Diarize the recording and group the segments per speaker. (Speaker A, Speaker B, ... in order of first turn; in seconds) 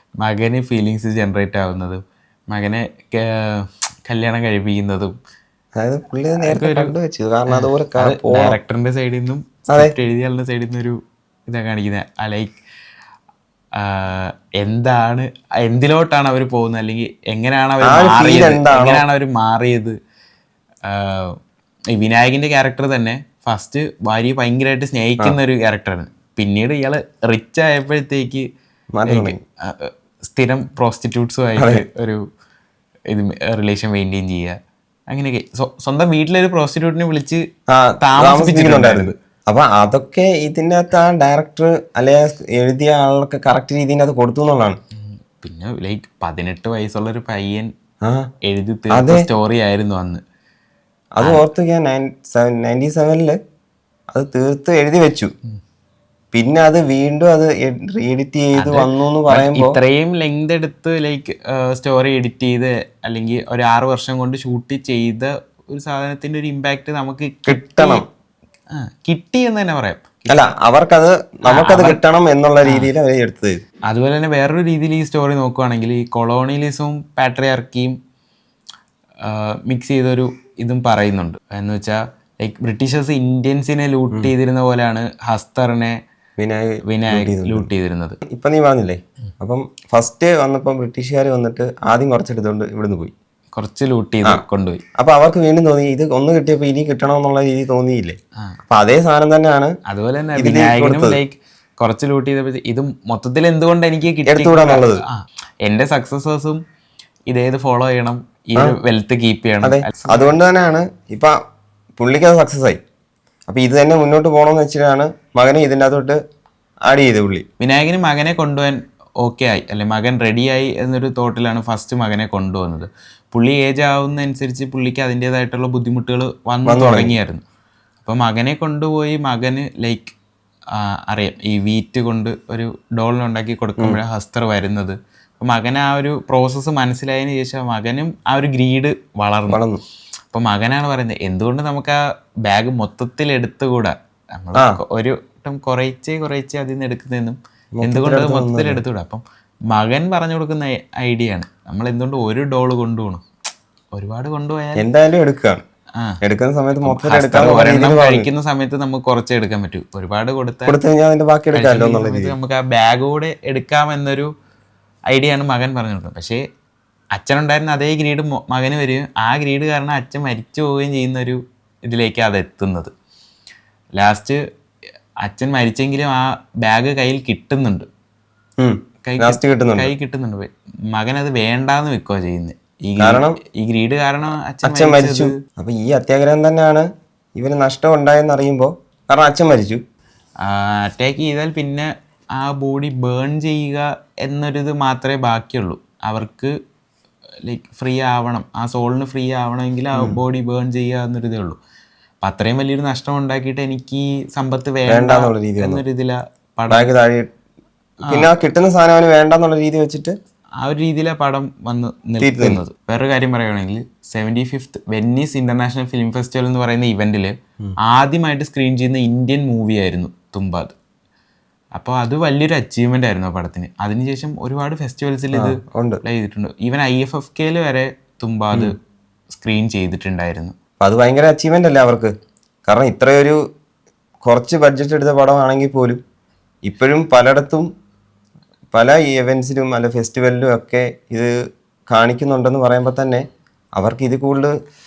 Speaker A: 0.2-5.1, 6.4-6.9, 7.5-12.6, 13.7-19.9, 20.8-21.4, 21.9-28.5, 29.1-32.2, 33.1-34.6, 35.1-37.4, 38.0-39.1, 45.0-47.7, 48.4-50.2, 58.5-68.0, 68.7-70.1, 71.5-72.0, 72.6-72.9, 73.9-78.0, 79.2-86.0, 86.8-88.2, 93.5-94.8, 99.8-106.6, 107.3-110.4, 117.6-127.4, 128.0-130.1, 130.7-139.6, 140.3-153.2, 153.9-154.9, 156.8-160.8, 161.5-164.3, 165.1-166.4, 167.1-172.9, 173.9-174.4, 175.2-177.9, 179.0-185.3, 190.4-196.5, 197.4-201.6, 202.2-206.9, 208.1-208.3, 210.6-220.7, 221.7-228.8, 229.3-230.5
Speaker B: 5.8-8.6, 17.8-19.0, 28.9-29.4, 37.7-44.8, 48.9-49.3, 51.1-53.4, 54.1-55.3, 56.3-59.8, 67.5-68.0, 70.3-73.6, 86.4-87.7, 88.2-93.1, 95.0-98.2, 98.7-99.7, 100.4-101.2, 104.2-105.0, 109.6-111.3, 112.0-112.8, 113.5-116.2, 116.8-117.4, 126.7-127.1, 139.5-139.8, 144.5-144.8, 147.8-148.8, 154.8-155.6, 156.2-158.3, 160.7-162.3, 178.6-179.9, 183.0-183.4, 184.6-186.8, 187.3-189.8, 199.9-200.2, 204.9-205.8, 206.7-207.3, 208.1-210.2, 212.2-212.6, 225.3-226.0, 230.8-232.1, 232.7-233.4, 234.2-236.0, 236.7-237.7, 238.7-241.3, 241.9-243.2, 243.8-244.5